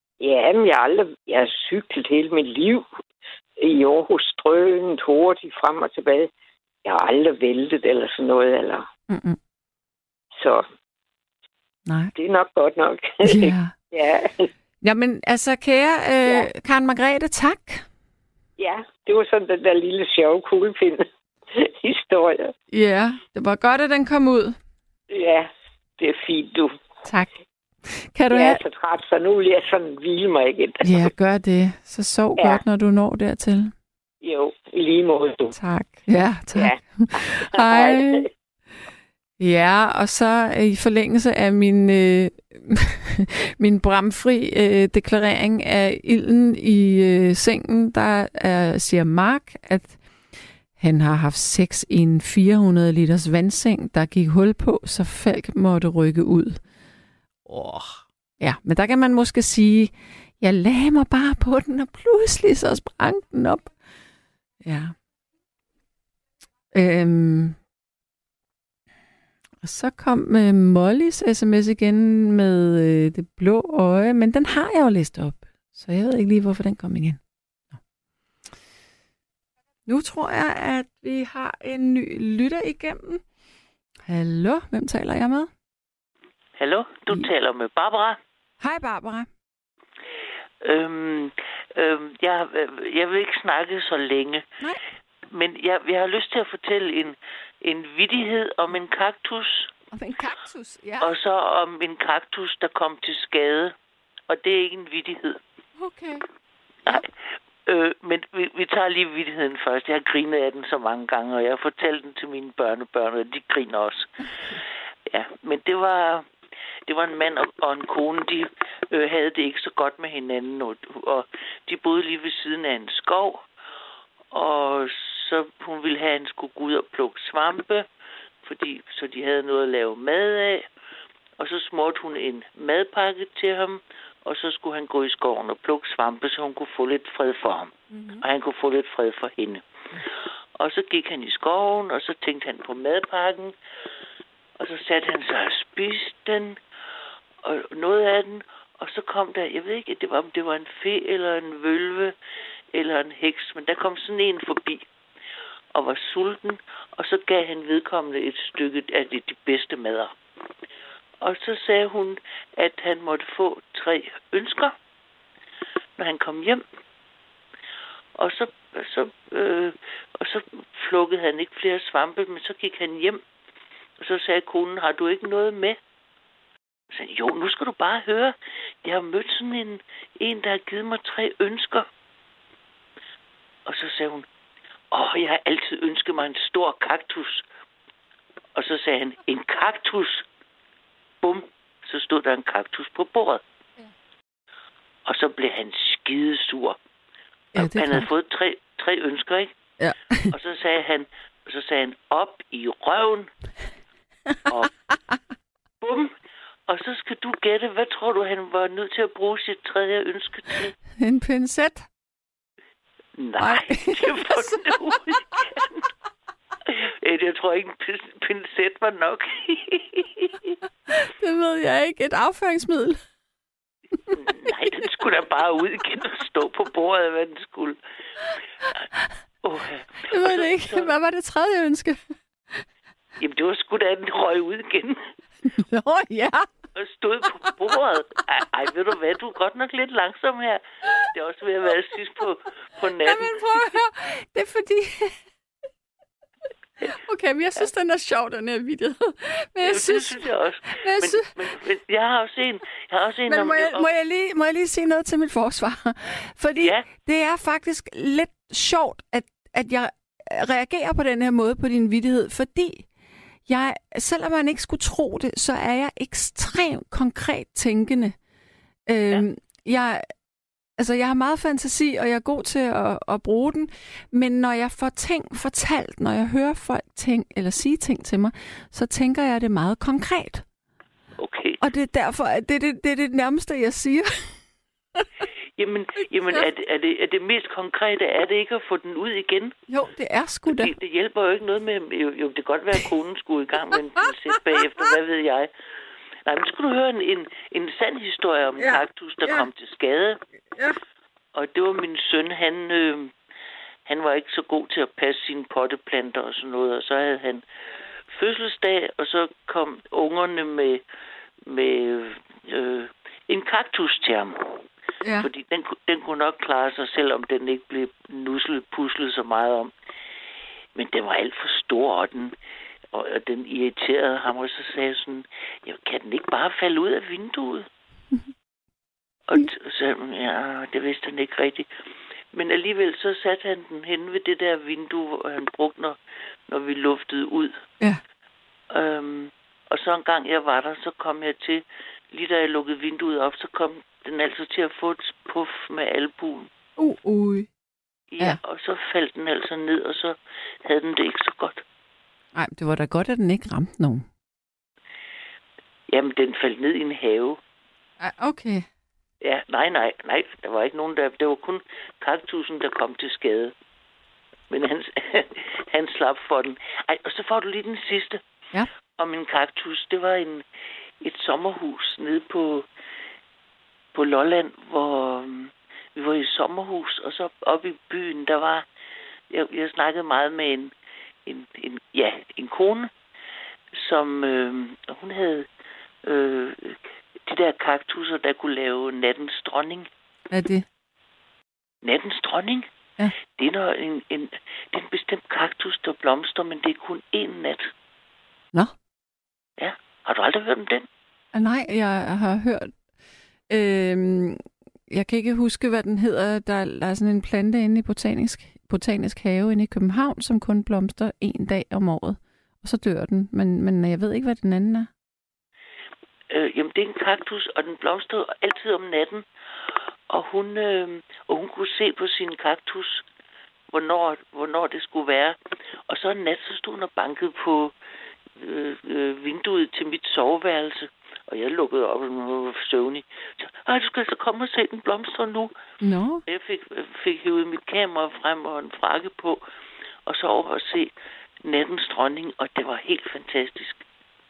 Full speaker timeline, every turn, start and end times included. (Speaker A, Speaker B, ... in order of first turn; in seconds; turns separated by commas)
Speaker A: 0.2-2.9, Speaker A: 3.6-6.3, Speaker A: 6.8-8.9, Speaker B: 9.1-9.4, Speaker A: 10.3-10.6, Speaker B: 11.8-12.1, Speaker A: 12.2-14.5, Speaker B: 13.2-13.7, Speaker B: 14.8-17.9, Speaker A: 18.6-22.5, Speaker B: 22.7-24.6, Speaker A: 25.1-26.7, Speaker B: 27.9-28.6, Speaker A: 28.3-31.1, Speaker B: 30.8-33.7, Speaker A: 34.2-35.5, Speaker B: 35.5-38.3, Speaker A: 36.5-38.3, Speaker B: 39.4-50.0, Speaker B: 50.8-56.6, Speaker B: 57.5-63.7, Speaker B: 64.6-64.9, Speaker B: 66.7-67.6, Speaker B: 69.6-77.2, Speaker B: 79.9-83.2, Speaker B: 84.0-85.5, Speaker C: 86.6-88.2, Speaker B: 88.6-89.3, Speaker C: 90.6-94.4, Speaker C: 95.3-99.7, Speaker B: 99.9-101.1, Speaker C: 101.0-103.8, Speaker C: 104.3-105.4, Speaker B: 105.8-106.2, Speaker C: 106.8-107.1, Speaker C: 107.7-114.1, Speaker C: 115.1-116.3, Speaker C: 116.9-123.5, Speaker C: 124.3-127.9, Speaker C: 128.4-130.7, Speaker C: 131.4-139.6, Speaker B: 138.0-138.2, Speaker C: 140.6-143.5, Speaker C: 144.6-146.6, Speaker C: 147.4-152.1, Speaker C: 152.7-154.8, Speaker C: 155.7-160.1, Speaker C: 161.2-164.8, Speaker C: 166.0-166.6, Speaker C: 168.2-173.2, Speaker C: 174.0-175.8, Speaker C: 176.9-181.9, Speaker C: 183.7-184.3, Speaker C: 184.9-187.4, Speaker C: 188.6-190.3, Speaker C: 191.2-193.4, Speaker C: 195.1-196.8, Speaker C: 197.5-199.5, Speaker B: 197.6-198.1, Speaker B: 199.8-200.3, Speaker C: 200.3-203.3, Speaker C: 204.5-204.7, Speaker C: 205.8-206.1, Speaker C: 206.7-210.7, Speaker B: 211.0-211.9, Speaker C: 213.2-215.9, Speaker B: 213.4-214.9, Speaker C: 216.7-220.5, Speaker B: 220.9-223.0, Speaker C: 224.1-227.8, Speaker C: 229.4-230.9, Speaker B: 230.1-232.0, Speaker C: 233.2-235.0, Speaker B: 235.5-236.5, Speaker C: 236.7-243.4, Speaker B: 243.0-245.2, Speaker B: 246.8-250.3, Speaker C: 249.6-253.9, Speaker B: 250.8-251.3, Speaker B: 253.3-262.9, Speaker C: 256.6-256.9, Speaker B: 263.5-268.1, Speaker B: 268.9-270.1, Speaker B: 270.8-280.4, Speaker C: 281.2-281.6, Speaker B: 281.6-284.4, Speaker C: 285.6-289.5, Speaker B: 289.7-290.7, Speaker C: 290.5-295.5, Speaker C: 296.2-300.2, Speaker B: 298.6-299.5, Speaker C: 301.3-303.1, Speaker C: 303.9-307.4, Speaker C: 308.1-310.8, Speaker C: 311.4-314.6, Speaker B: 315.0-315.3, Speaker C: 315.2-319.7, Speaker C: 320.7-322.3, Speaker C: 322.9-327.7, Speaker C: 329.3-331.7, Speaker C: 332.3-337.6, Speaker C: 338.7-346.5, Speaker B: 346.8-347.5, Speaker C: 348.1-351.6, Speaker B: 352.3-354.1, Speaker C: 355.9-357.4, Speaker B: 358.0-358.7, Speaker C: 359.2-363.5, Speaker C: 364.5-368.2, Speaker C: 369.0-370.4, Speaker C: 371.0-372.7, Speaker C: 373.9-378.6, Speaker C: 379.3-380.7, Speaker C: 381.2-382.9, Speaker C: 383.8-385.5, Speaker C: 386.0-389.9, Speaker B: 390.3-390.6, Speaker C: 391.8-392.7, Speaker C: 393.4-397.7, Speaker C: 399.6-400.9, Speaker B: 401.3-402.7, Speaker B: 403.5-404.4, Speaker B: 404.9-414.9, Speaker C: 416.3-419.2, Speaker C: 420.1-423.0, Speaker C: 423.7-425.4, Speaker C: 425.9-427.7, Speaker C: 428.4-435.5, Speaker B: 435.8-436.2, Speaker C: 436.3-439.4, Speaker C: 440.1-440.9, Speaker C: 441.4-443.8